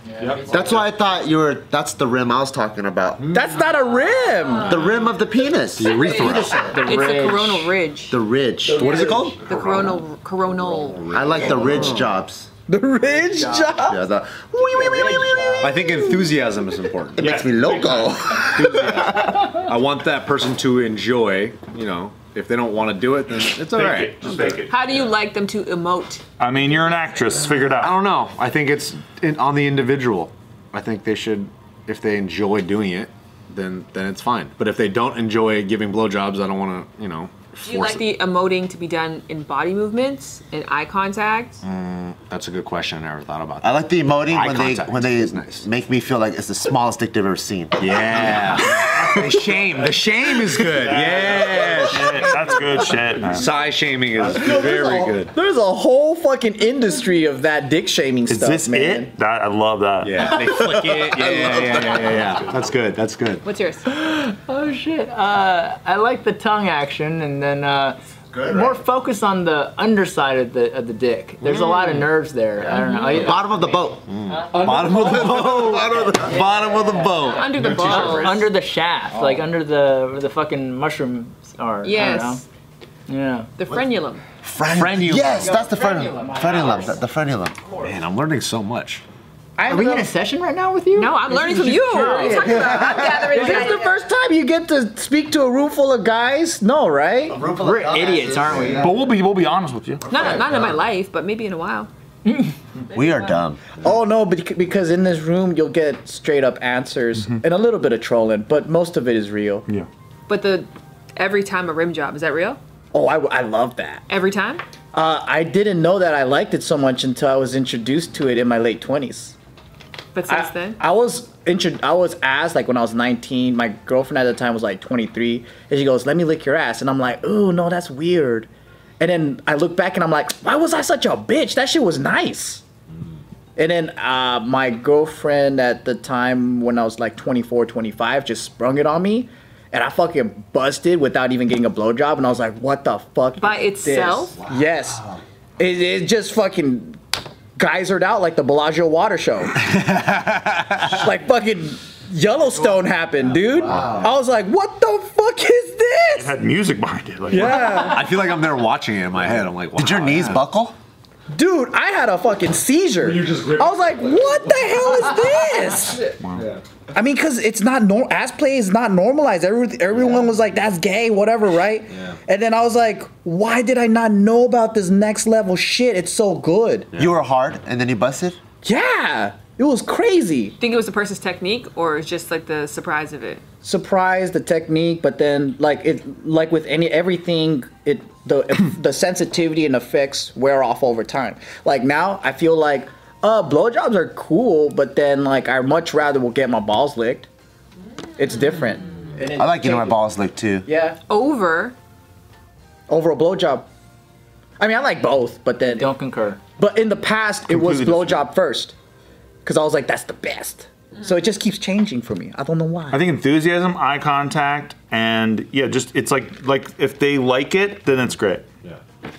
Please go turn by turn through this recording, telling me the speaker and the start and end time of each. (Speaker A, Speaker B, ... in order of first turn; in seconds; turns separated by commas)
Speaker A: 0.1-0.7, Speaker B: 0.2-0.8, Speaker C: 0.5-3.3, Speaker D: 3.3-4.8, Speaker C: 4.7-6.8, Speaker E: 5.8-6.8, Speaker F: 6.0-8.2, Speaker A: 6.3-7.8, Speaker C: 8.1-9.1, Speaker E: 8.8-10.0, Speaker D: 8.8-9.3, Speaker F: 9.4-11.1, Speaker E: 10.7-12.1, Speaker C: 11.1-12.5, Speaker D: 12.7-14.0, Speaker A: 13.3-13.8, Speaker C: 13.9-15.7, Speaker A: 14.9-15.6, Speaker D: 15.2-16.0, Speaker E: 15.6-17.3, Speaker C: 17.1-19.5, Speaker B: 17.2-18.4, Speaker E: 18.4-24.6, Speaker B: 23.7-24.9, Speaker F: 24.7-26.2, Speaker B: 26.4-28.0, Speaker E: 27.8-38.1, Speaker F: 37.6-41.6, Speaker E: 41.6-45.7, Speaker C: 43.6-49.4, Speaker E: 47.8-55.3, Speaker B: 50.9-53.5, Speaker D: 54.2-59.1, Speaker B: 58.3-60.4, Speaker E: 60.0-63.5, Speaker C: 60.9-62.1, Speaker A: 61.5-61.9, Speaker F: 63.4-63.9, Speaker A: 63.9-73.8, Speaker C: 68.3-68.8, Speaker C: 71.5-72.0, Speaker C: 72.6-74.0, Speaker F: 72.7-73.4, Speaker E: 74.1-78.5, Speaker A: 74.3-75.3, Speaker C: 74.5-76.6, Speaker A: 76.2-82.4, Speaker F: 77.2-78.5, Speaker D: 79.1-79.4, Speaker F: 81.8-82.4, Speaker A: 83.1-83.5, Speaker F: 83.6-84.2, Speaker C: 84.4-87.6, Speaker E: 84.7-85.6, Speaker A: 85.2-87.0, Speaker D: 85.5-86.9, Speaker E: 87.8-89.0, Speaker D: 89.6-90.1, Speaker A: 89.7-93.8, Speaker F: 91.0-93.9, Speaker D: 91.3-97.4, Speaker C: 97.3-99.0, Speaker A: 97.5-99.0, Speaker E: 98.5-98.8, Speaker B: 98.8-100.2, Speaker C: 100.1-100.6, Speaker F: 100.1-101.9, Speaker A: 102.3-102.5, Speaker C: 102.9-103.6, Speaker F: 103.0-103.2, Speaker D: 103.8-109.7, Speaker F: 110.3-112.6, Speaker D: 112.9-114.0, Speaker F: 114.1-114.6, Speaker D: 114.9-119.4, Speaker F: 120.1-120.8, Speaker D: 120.3-132.6, Speaker D: 133.6-145.1, Speaker F: 143.4-144.4, Speaker D: 145.6-147.0, Speaker D: 147.6-149.7, Speaker E: 149.6-151.0, Speaker D: 150.8-156.3, Speaker E: 153.7-154.1, Speaker B: 156.2-157.7, Speaker D: 157.3-158.2, Speaker E: 157.4-160.4, Speaker C: 159.8-160.8, Speaker D: 161.3-166.1, Speaker E: 163.0-164.8, Speaker B: 166.2-166.5, Speaker E: 166.4-166.6, Speaker D: 166.9-176.9, Speaker C: 177.0-178.4, Speaker D: 178.6-180.6, Speaker F: 180.6-183.4, Speaker D: 183.6-197.3, Speaker D: 198.2-200.1, Speaker C: 199.4-200.7, Speaker D: 200.7-201.0, Speaker F: 201.1-201.8, Speaker D: 202.9-203.7, Speaker D: 204.6-205.9, Speaker A: 205.7-206.4, Speaker D: 206.5-208.8, Speaker B: 207.5-208.2, Speaker D: 209.4-213.1, Speaker B: 212.9-218.5